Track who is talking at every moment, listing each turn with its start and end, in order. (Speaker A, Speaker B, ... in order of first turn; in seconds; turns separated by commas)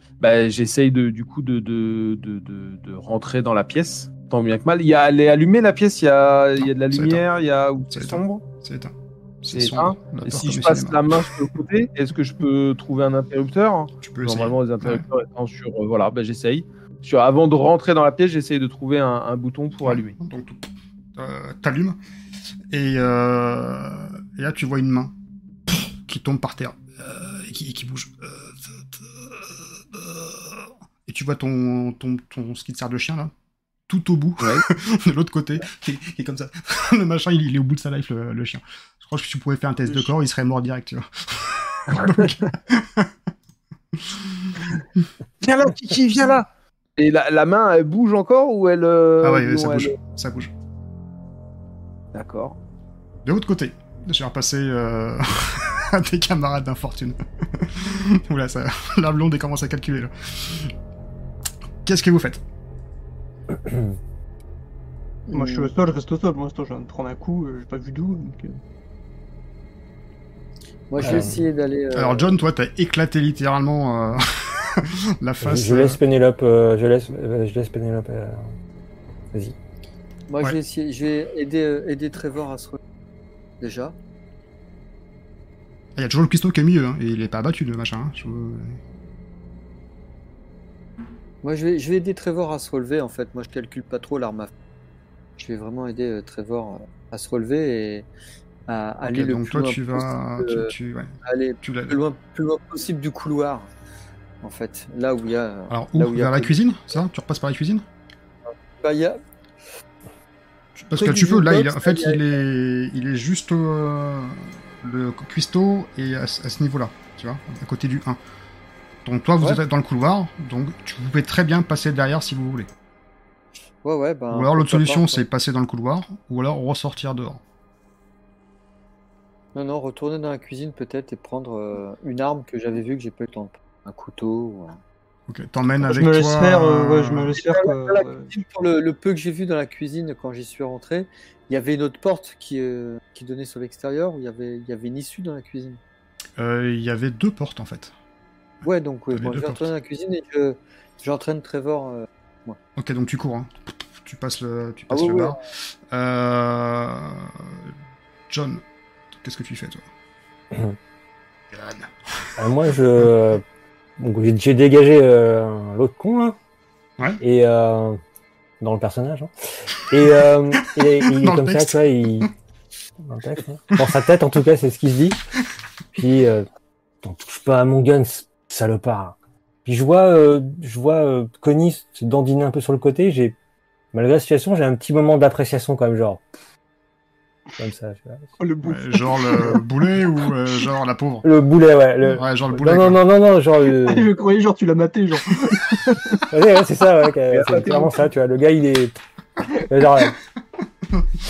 Speaker A: 0.2-8.4, Speaker B: 6.6-7.2, Speaker B: 7.9-11.3, Speaker A: 9.5-20.1, Speaker B: 14.0-15.1, Speaker B: 19.8-22.0, Speaker B: 22.7-25.1, Speaker B: 25.7-33.3, Speaker B: 33.9-43.1, Speaker A: 41.9-42.5, Speaker B: 44.0-44.6, Speaker A: 45.4-50.0, Speaker B: 49.2-50.5, Speaker A: 52.1-52.6, Speaker B: 53.2-60.7, Speaker B: 61.8-62.4, Speaker C: 63.5-64.0, Speaker D: 65.3-65.7, Speaker E: 65.3-68.6, Speaker D: 70.9-72.4, Speaker C: 71.0-71.4, Speaker B: 71.9-76.0, Speaker C: 75.4-78.5, Speaker D: 80.3-82.8, Speaker D: 83.6-84.0, Speaker B: 86.0-88.8, Speaker D: 91.4-94.5, Speaker D: 95.4-98.1, Speaker D: 98.7-100.7, Speaker B: 99.0-102.0, Speaker D: 101.2-103.7, Speaker D: 104.4-106.5, Speaker B: 105.7-107.8, Speaker D: 108.5-109.2, Speaker B: 110.8-118.2, Speaker D: 110.9-112.2, Speaker B: 119.0-122.7, Speaker D: 123.8-125.2, Speaker B: 124.3-127.4, Speaker D: 129.5-134.8, Speaker B: 135.3-137.4, Speaker E: 135.8-138.3, Speaker D: 137.3-145.8, Speaker B: 146.4-147.9, Speaker D: 148.6-152.6, Speaker B: 149.1-149.6, Speaker B: 152.8-155.4, Speaker D: 154.9-155.3, Speaker B: 155.9-157.7, Speaker B: 158.3-158.6, Speaker B: 159.2-159.9, Speaker C: 160.5-160.8, Speaker B: 161.5-162.3, Speaker C: 162.4-163.4, Speaker C: 164.0-166.4, Speaker C: 167.2-168.0, Speaker C: 168.6-172.3, Speaker B: 170.6-172.3, Speaker C: 173.0-175.2, Speaker C: 175.9-176.4, Speaker C: 177.0-183.3, Speaker C: 183.9-186.2, Speaker C: 187.6-188.3, Speaker E: 188.4-189.7, Speaker B: 188.6-191.2, Speaker C: 191.2-194.1, Speaker B: 192.2-193.0, Speaker E: 193.7-196.2, Speaker C: 196.3-198.9, Speaker A: 197.3-198.0, Speaker C: 199.5-200.2